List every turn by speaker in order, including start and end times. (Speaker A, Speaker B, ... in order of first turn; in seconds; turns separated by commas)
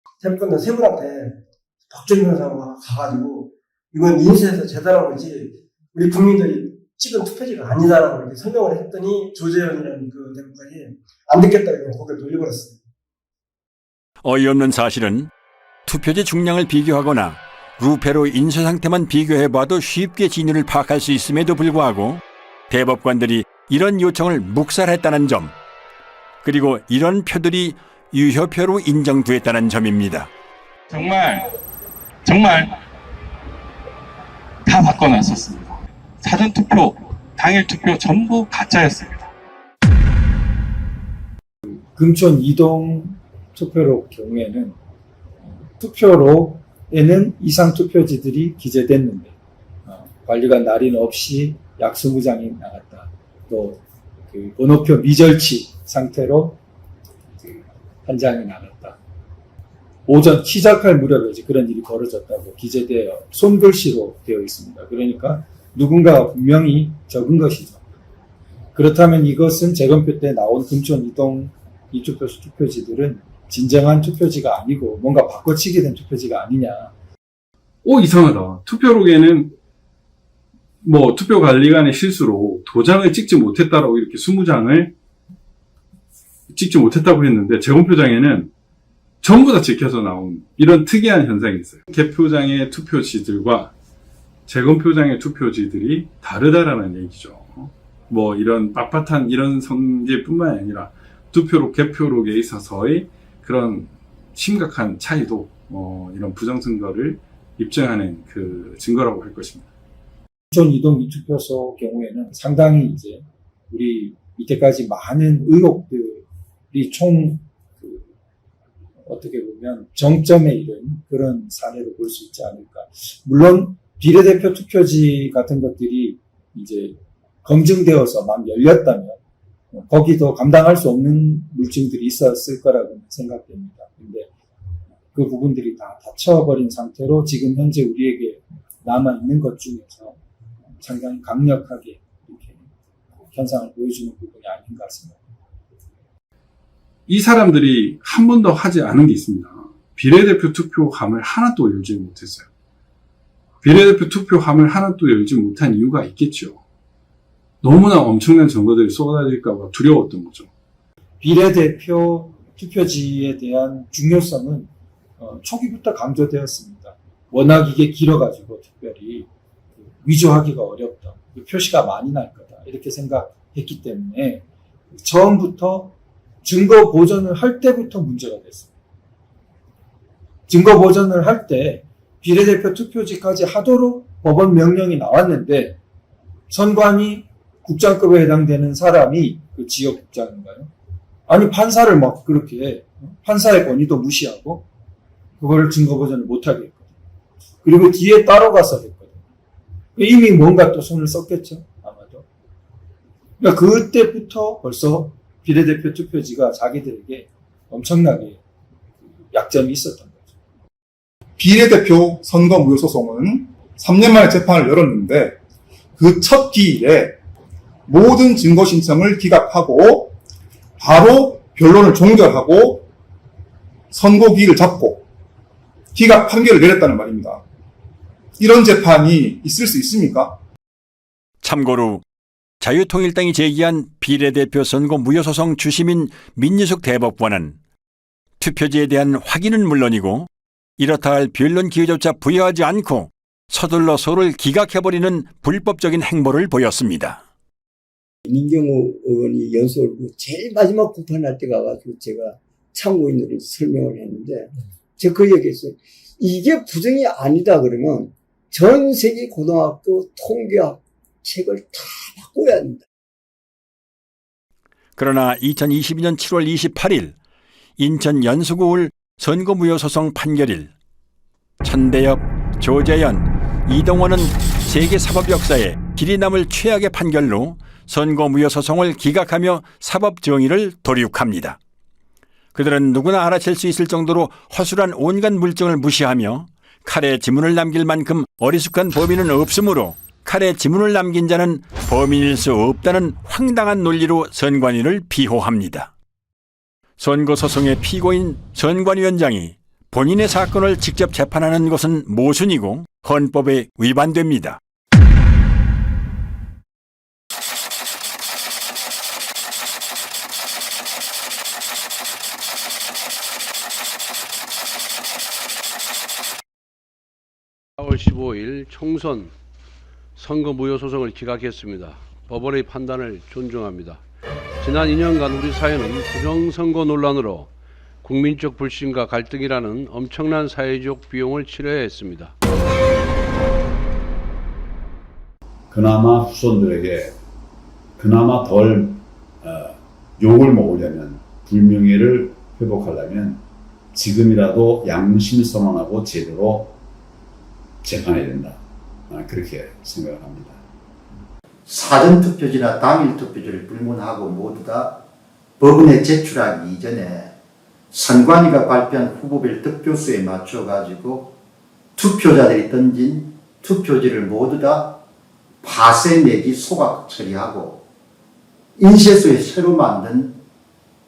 Speaker A: 0.2-1.4, Speaker A: 1.9-12.8, Speaker B: 14.2-15.3, Speaker B: 15.9-25.5, Speaker B: 26.4-30.3, Speaker C: 30.9-31.5, Speaker C: 32.3-32.7, Speaker C: 34.7-35.7, Speaker C: 36.2-39.3, Speaker D: 41.7-44.8, Speaker D: 45.7-49.3, Speaker D: 49.9-56.6, Speaker D: 57.5-59.0, Speaker D: 60.1-67.8, Speaker D: 68.7-76.9, Speaker E: 77.8-79.5, Speaker E: 80.8-84.9, Speaker E: 86.5-88.5, Speaker E: 89.2-93.7, Speaker E: 94.5-109.7, Speaker D: 110.5-118.1, Speaker D: 119.0-129.2, Speaker D: 129.7-134.3, Speaker D: 135.1-140.2, Speaker D: 140.8-142.7, Speaker D: 143.2-145.2, Speaker E: 147.1-152.5, Speaker E: 153.6-156.6, Speaker E: 157.6-160.5, Speaker D: 161.2-169.3, Speaker D: 169.8-174.4, Speaker D: 175.0-178.7, Speaker D: 180.5-185.8, Speaker D: 186.5-190.7, Speaker D: 191.3-194.7, Speaker D: 195.4-196.9, Speaker D: 197.6-199.2, Speaker D: 200.0-202.2, Speaker D: 203.4-208.4, Speaker D: 209.3-210.3, Speaker F: 211.4-215.4, Speaker F: 216.0-217.2, Speaker F: 217.9-220.2, Speaker F: 220.8-222.9, Speaker F: 223.9-225.0, Speaker F: 225.9-227.4, Speaker F: 228.4-230.4, Speaker B: 231.4-232.0, Speaker B: 232.6-237.6, Speaker B: 238.4-247.2, Speaker G: 248.2-262.8, Speaker B: 265.0-267.1, Speaker B: 267.8-270.7, Speaker B: 271.6-281.6, Speaker B: 282.6-295.9, Speaker B: 297.0-304.6, Speaker H: 317.8-319.3, Speaker H: 320.2-324.0, Speaker H: 324.6-327.5, Speaker H: 328.0-332.4, Speaker I: 335.7-337.1, Speaker I: 338.0-343.4, Speaker I: 343.9-346.7, Speaker I: 347.8-348.6, Speaker I: 349.1-350.6, Speaker J: 351.7-355.0, Speaker J: 355.6-357.3, Speaker J: 357.9-361.4, Speaker J: 362.0-365.0, Speaker J: 365.6-367.8, Speaker J: 368.8-370.4